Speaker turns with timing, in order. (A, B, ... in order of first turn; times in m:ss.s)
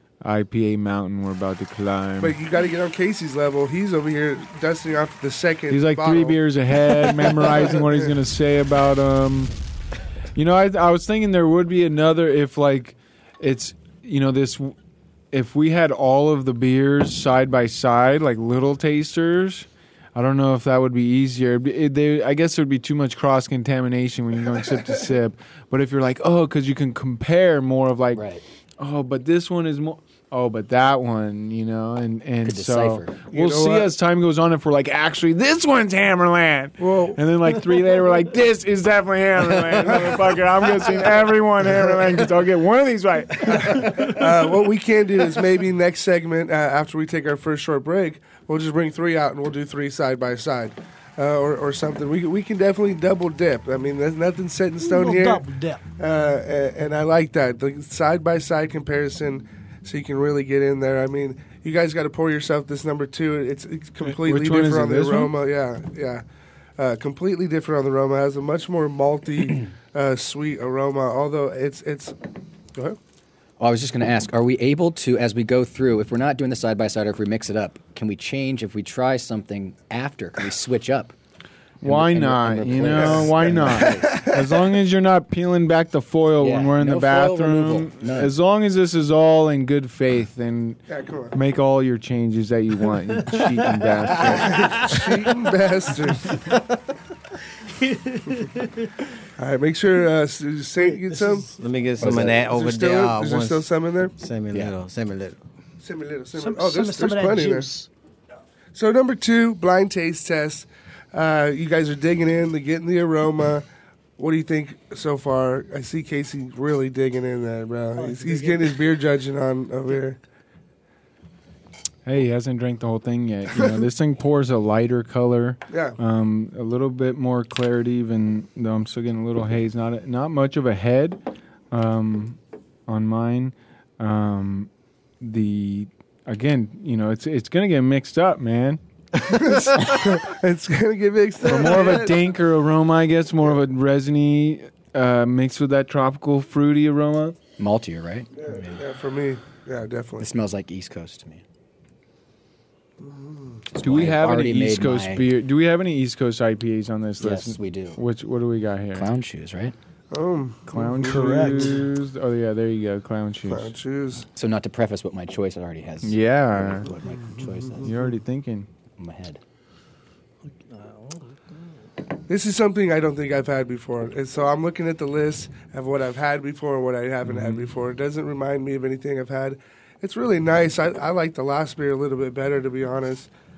0:00.2-0:02.4 A
0:02.2-0:06.4 B
0:05.7-0:09.5 A
0:07.2-0:08.1 B
0:10.4-0:14.7 A
0:15.3-0:28.2 A
0:28.1-0:28.4 C
0:28.8-0:44.2 A
0:32.4-0:33.2 C
0:33.3-0:33.9 B
0:36.8-0:37.2 B
0:39.9-0:40.2 B
0:43.5-0:55.4 B
0:54.8-0:55.8 D
0:56.0-1:06.2 B
1:04.0-1:05.4 A
1:06.8-1:12.2 B
1:13.6-1:21.1 C
1:21.8-1:30.8 A
1:21.8-1:24.2 C
1:22.8-1:24.3 B
1:26.4-1:28.3 C
1:30.9-1:31.4 B
1:31.3-1:34.8 A
1:33.4-1:34.7 D
1:34.4-1:36.4 B
1:37.8-1:38.6 D
1:39.4-1:41.5 B
1:40.8-1:41.6 D
1:41.6-1:45.4 E
1:42.1-1:44.2 B
1:45.8-1:47.7 B
1:46.4-1:47.9 D
1:48.7-1:53.7 B
1:54.2-2:00.2 B
1:58.0-1:58.8 D
2:02.1-2:11.2 A
2:05.7-2:06.0 B
2:11.7-2:14.7 A
2:15.2-2:18.8 A
2:19.2-2:22.2 B
2:21.4-2:27.4 A
2:27.6-2:28.8 C
2:28.4-2:30.3 B
2:30.2-2:31.4 C
2:33.0-2:33.6 B
2:33.8-2:35.3 C
2:33.8-2:39.1 A
2:37.2-2:38.0 C
2:38.9-2:39.8 C
2:40.1-2:41.8 B
2:40.7-2:43.7 A
2:41.0-2:41.9 D
2:43.5-2:44.3 B
2:44.4-2:47.9 C
2:46.0-2:46.9 A
2:47.3-2:47.8 B
2:47.8-2:48.7 A
2:49.0-2:49.4 C
2:50.5-2:51.2 D
2:52.3-3:03.3 B
2:57.2-2:57.7 A